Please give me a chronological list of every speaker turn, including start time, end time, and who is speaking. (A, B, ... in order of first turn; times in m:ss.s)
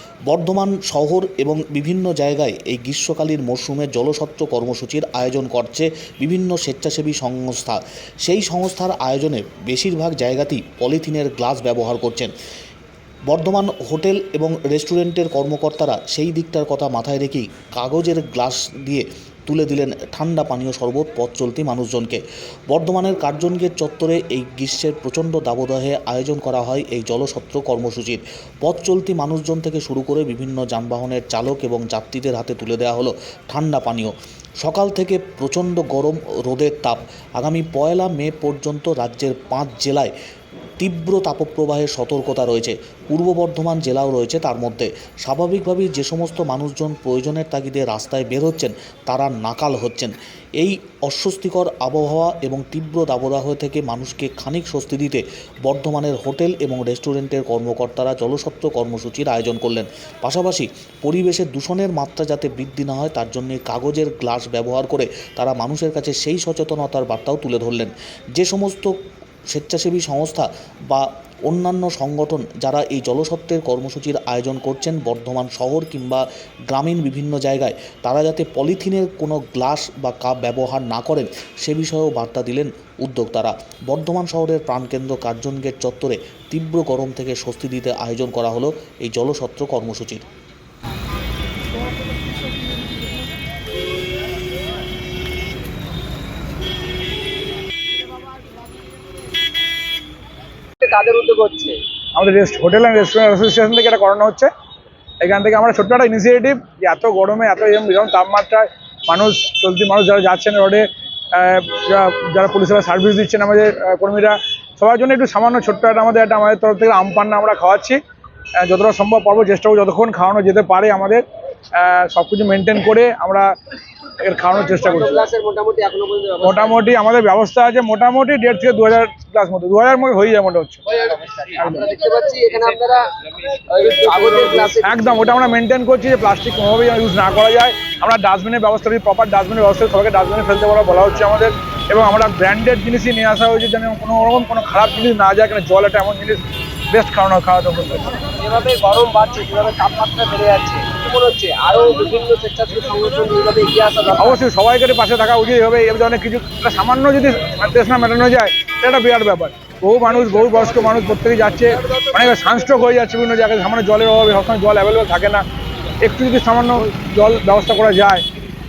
0:00.3-0:12.3 A
0:13.3-0:40.1 A
0:40.8-1:08.9 A
1:09.5-1:30.2 A
1:40.8-1:41.8 B
1:42.1-1:44.5 C
1:45.2-1:58.0 C
1:58.6-2:03.5 C
2:04.2-2:05.2 C
2:04.6-2:06.8 B
2:06.4-2:10.8 C
2:11.1-2:13.2 B
2:13.7-2:15.4 B
2:14.8-2:28.2 C
2:28.4-2:34.4 B
2:34.2-2:45.4 C
2:40.3-2:41.0 B
2:41.7-2:42.2 B
2:46.0-2:48.2 C